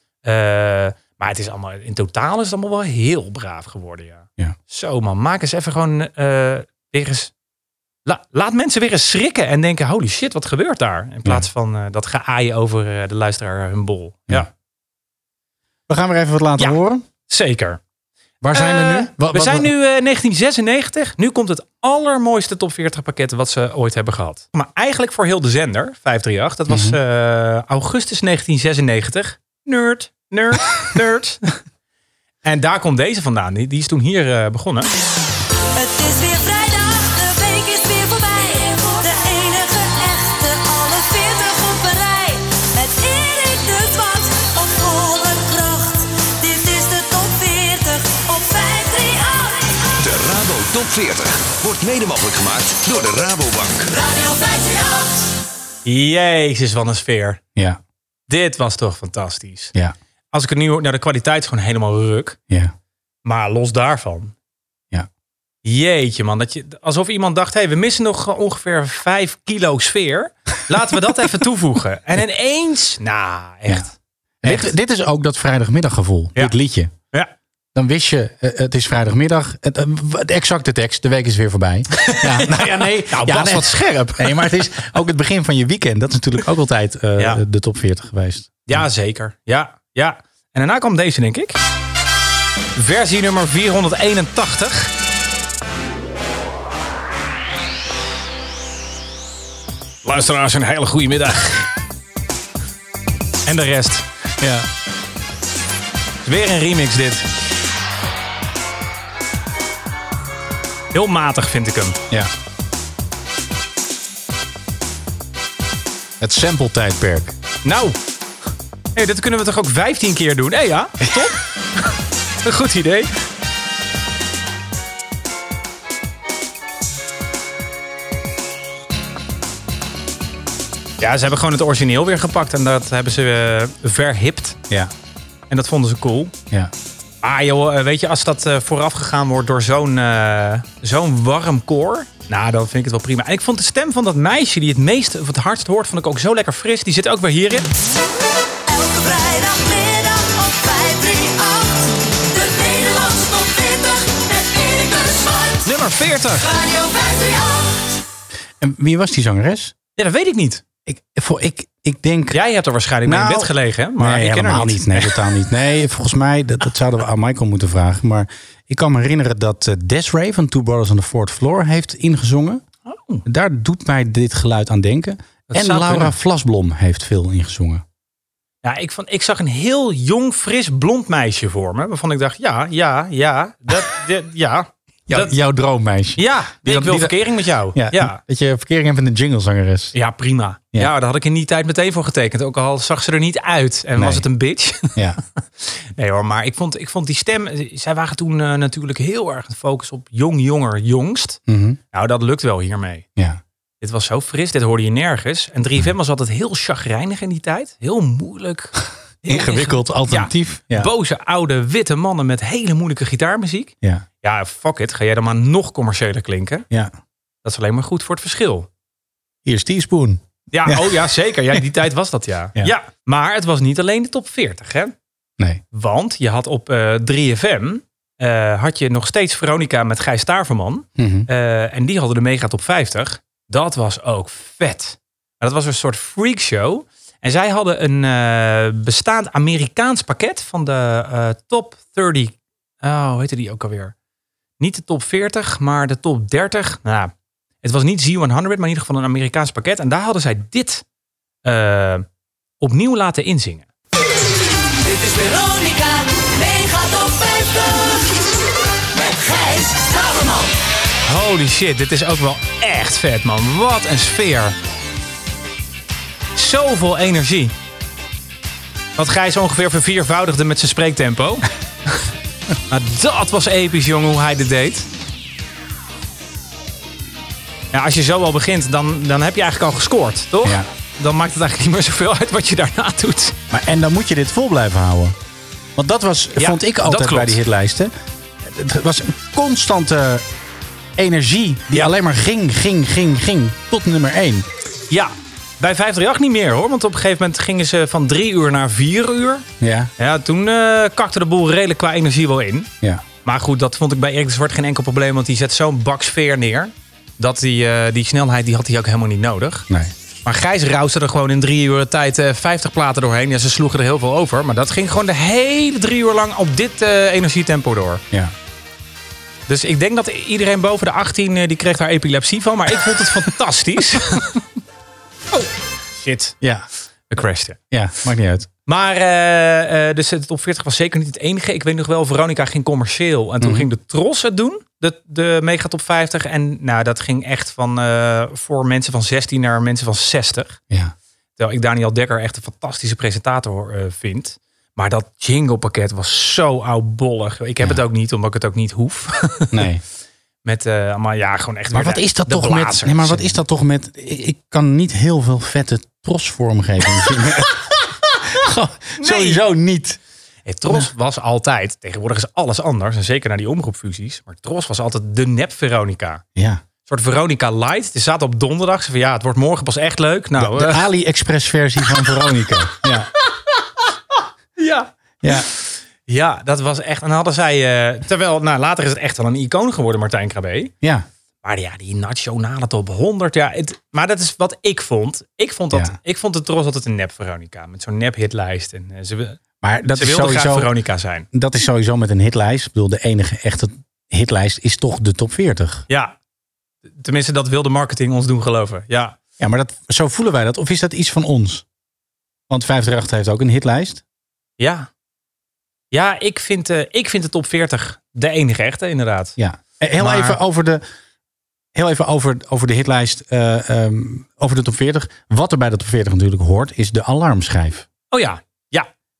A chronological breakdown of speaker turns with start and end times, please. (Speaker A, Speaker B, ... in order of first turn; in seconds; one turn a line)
Speaker A: 0.2-7.3
Speaker A: 8.1-14.5
Speaker B: 15.9-17.0
Speaker A: 16.6-17.8
Speaker B: 18.4-19.7
Speaker A: 18.5-31.6
Speaker B: 26.7-27.0
Speaker A: 32.4-34.9
Speaker C: 35.7-49.8
Speaker D: 50.0-53.9
Speaker C: 53.9-55.1
Speaker A: 55.8-57.4
Speaker B: 57.5-57.8
Speaker A: 58.3-59.7
Speaker A: 60.3-62.4
Speaker A: 63.2-64.3
Speaker A: 65.6-74.7
Speaker B: 74.4-76.9
Speaker B: 77.7-88.8
Speaker A: 81.9-84.6
Speaker A: 87.2-87.4
Speaker A: 88.7-91.6
Speaker A: 92.8-94.9
Speaker A: 100.0-101.7
Speaker A: 103.5-104.0
Speaker B: 104.4-104.7
Speaker A: 106.2-107.3
Speaker A: 110.9-112.0
Speaker B: 116.2-117.3
Speaker A: 117.6-118.0
Speaker A: 118.9-121.4
Speaker A: 122.4-123.1
Speaker A: 131.0-134.6
Speaker A: 135.5-136.3
Speaker A: 137.2-147.7
Speaker C: 148.7-155.6
Speaker A: 155.6-156.5
Speaker C: 156.4-157.7
Speaker B: 158.6-159.7
Speaker A: 159.9-160.6
Speaker B: 160.8-162.4
Speaker A: 162.3-165.2
Speaker B: 163.0-172.6
Speaker A: 172.8-173.2
Speaker B: 173.2-177.8
Speaker A: 175.5-176.1
Speaker A: 178.6-185.3
Speaker B: 185.1-189.9
Speaker A: 186.2-188.2
Speaker A: 189.9-195.0
Speaker B: 193.9-194.2
Speaker B: 194.9-195.2
Speaker A: 195.6-201.4
Speaker B: 201.5-201.8
Speaker A: 201.9-203.1
Speaker B: 203.2-203.4
Speaker A: 203.8-216.6
Speaker B: 209.3-210.9
Speaker A: 217.4-218.7
Speaker B: 219.4-221.0
Speaker A: 220.5-224.9
Speaker A: 225.7-243.9
Speaker B: 230.9-231.3
Speaker A: 244.6-250.8
Speaker A: 251.4-252.0
Speaker A: 252.6-253.7
Speaker C: 254.8-258.3
Speaker C: 258.9-260.5
Speaker A: 261.1-264.6
Speaker A: 266.3-267.5
Speaker A: 268.9-271.4
Speaker A: 272.7-274.9
Speaker A: 277.7-283.4
Speaker B: 283.5-285.1
Speaker B: 285.8-287.9
Speaker A: 286.4-287.4
Speaker B: 288.4-290.2
Speaker B: 291.0-294.4
Speaker A: 294.9-299.4
Speaker B: 299.6-299.9
Speaker A: 300.0-302.7
Speaker A: 303.2-309.7
Speaker A: 310.2-318.0
Speaker A: 319.5-324.4
Speaker A: 325.3-326.4
Speaker B: 326.4-326.6
Speaker A: 327.1-327.6
Speaker B: 327.7-328.5
Speaker A: 328.6-340.6
Speaker B: 333.4-333.7
Speaker A: 341.4-349.6
Speaker B: 349.5-349.8
Speaker A: 350.4-353.4
Speaker B: 351.7-360.0
Speaker A: 359.0-359.4
Speaker A: 360.4-366.2
Speaker B: 366.4-366.6
Speaker A: 366.8-370.9
Speaker B: 370.4-373.1
Speaker A: 374.6-380.7
Speaker B: 375.2-375.5
Speaker B: 380.8-381.1
Speaker A: 381.4-389.4
Speaker B: 389.6-390.7
Speaker A: 389.9-391.3
Speaker B: 391.3-395.8
Speaker A: 395.9-396.1
Speaker A: 396.9-399.2
Speaker B: 399.4-401.6
Speaker B: 402.5-404.0
Speaker A: 404.6-404.9
Speaker A: 405.9-409.4
Speaker B: 409.4-410.8
Speaker A: 410.0-410.4
Speaker B: 411.7-417.9
Speaker A: 418.1-418.9